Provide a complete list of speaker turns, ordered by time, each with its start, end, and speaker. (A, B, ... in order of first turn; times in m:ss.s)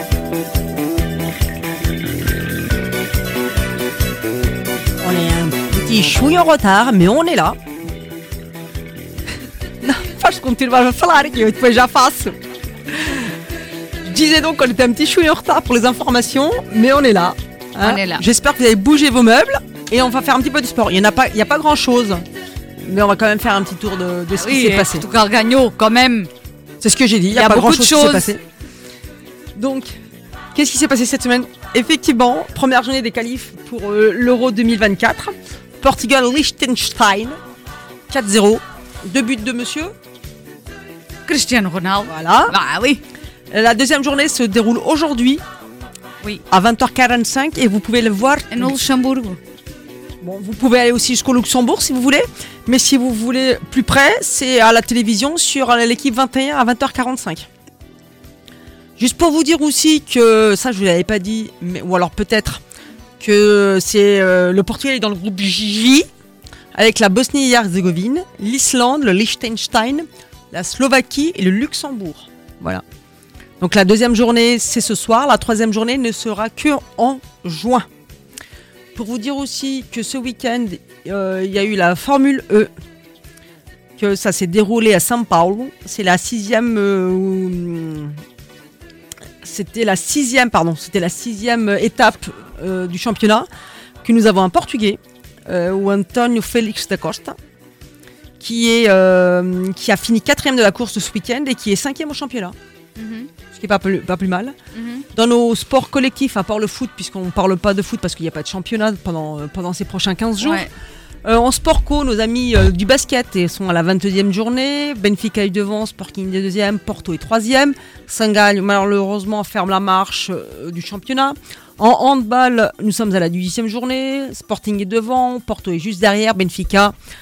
0:05.0-0:07.6 A
0:09.8-0:13.3 A
0:14.0-0:25.0 A
0:17.8-0:18.2 B
0:24.4-0:26.3 B
0:26.8-0:28.4 A
0:27.3-0:28.3 B
0:29.6-0:30.0 A
0:30.5-0:37.4 A
0:38.1-0:39.9 A
0:41.3-0:43.0 B
0:42.1-0:42.5 A
0:43.5-0:45.4 A
0:46.5-0:48.8 A
0:48.5-0:49.4 B
0:50.2-0:57.5 A
0:59.0-1:02.6 A
1:03.2-1:06.1 A
1:06.7-1:12.8 A
1:13.6-1:17.9 A
1:18.9-1:22.7 A
1:24.0-1:28.2 A
1:29.4-1:33.5 A
1:34.0-1:37.4 A
1:38.4-1:42.6 A
1:43.0-1:43.3 B
1:43.5-1:44.6 A
1:44.7-1:45.1 B
1:45.1-1:50.6 A
1:50.4-1:50.7 B
1:51.2-2:07.0 A